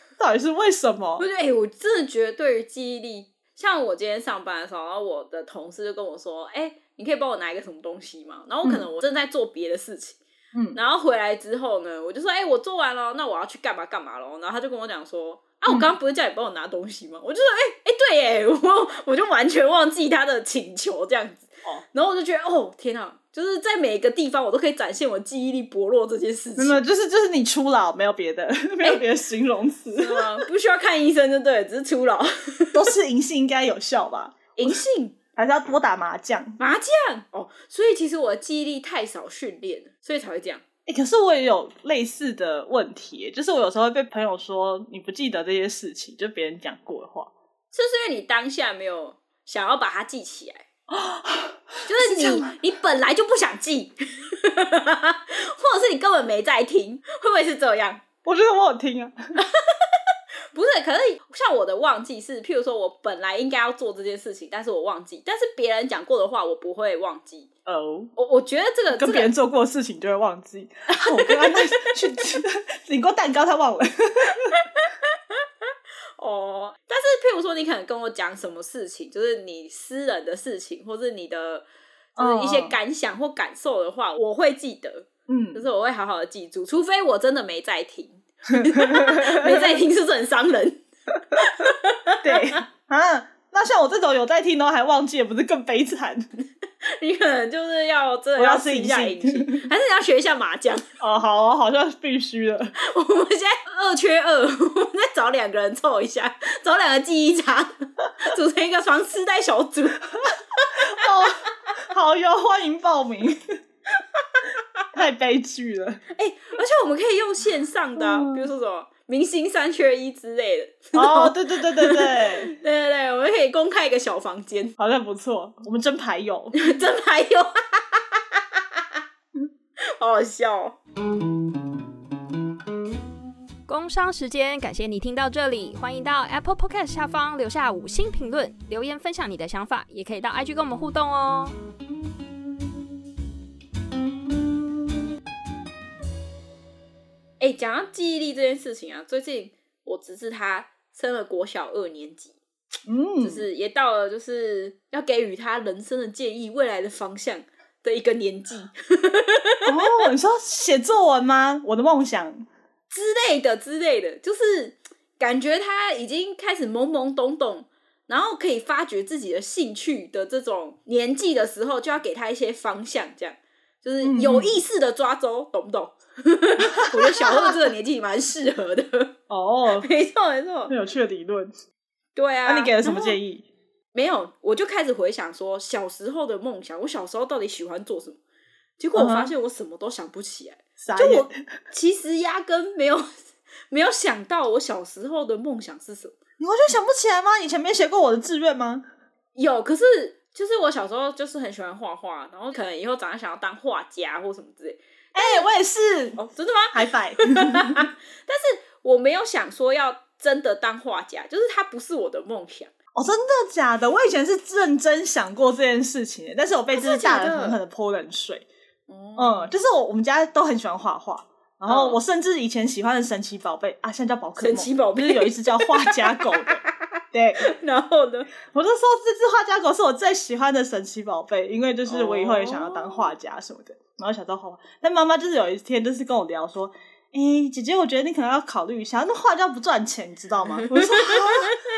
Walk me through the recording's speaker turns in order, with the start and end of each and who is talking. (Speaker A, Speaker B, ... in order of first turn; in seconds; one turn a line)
Speaker A: 0.2-1.2
Speaker B: 1.2-10.2
Speaker A: 10.5-10.8
Speaker B: 10.7-26.8
Speaker A: 26.6-30.3
Speaker B: 29.9-32.8
Speaker A: 32.7-34.8
Speaker B: 34.6-35.1
Speaker A: 35.4-36.6
Speaker B: 36.6-40.6
Speaker A: 40.9-47.3
Speaker B: 47.7-50.6
Speaker A: 50.9-52.5
Speaker B: 51.9-58.0
Speaker A: 58.2-59.1
Speaker B: 59.4-59.6
Speaker B: 60.5-67.5
Speaker A: 67.7-68.1
Speaker B: 68.2-69.3
Speaker A: 68.9-74.6
Speaker B: 70.9-72.0
Speaker B: 76.2-81.6
Speaker A: 82.2-82.7
Speaker B: 82.2-90.8
Speaker A: 85.3-85.6
Speaker A: 88.6-89.8
Speaker B: 91.3-92.6
Speaker A: 92.2-96.2
Speaker B: 96.8-100.8
Speaker A: 98.3-99.6
Speaker A: 101.0-102.7
Speaker B: 102.8-111.0
Speaker A: 110.7-113.4
Speaker A: 114.9-116.0
Speaker B: 116.1-124.7
Speaker A: 118.0-118.4
Speaker A: 120.9-122.5
Speaker A: 124.8-126.5
Speaker B: 126.5-128.4
Speaker B: 129.9-130.8
Speaker C: 133.7-141.6
Speaker B: 147.4-152.4
Speaker A: 152.9-153.4
Speaker B: 153.2-160.0
Speaker A: 159.6-162.5
Speaker B: 162.9-179.1
Speaker A: 174.0-174.6
Speaker A: 176.7-177.6
Speaker A: 179.3-179.9
Speaker B: 179.7-180.7
Speaker A: 180.7-181.5
Speaker B: 182.1-183.2
Speaker A: 182.4-183.4
Speaker B: 183.9-188.2
Speaker B: 188.8-196.2
Speaker A: 188.9-189.3
Speaker A: 190.8-191.3
Speaker A: 196.4-198.8
Speaker B: 199.3-205.5
Speaker A: 205.1-206.2
Speaker B: 206.2-212.7
Speaker A: 206.7-207.9
Speaker A: 212.9-218.4
Speaker B: 216.7-217.6
Speaker B: 218.9-219.5
Speaker A: 219.2-227.4
Speaker B: 221.7-222.0
Speaker B: 224.4-226.4
Speaker B: 227.4-228.3
Speaker A: 228.4-241.5
Speaker B: 231.8-233.1
Speaker B: 240.6-241.6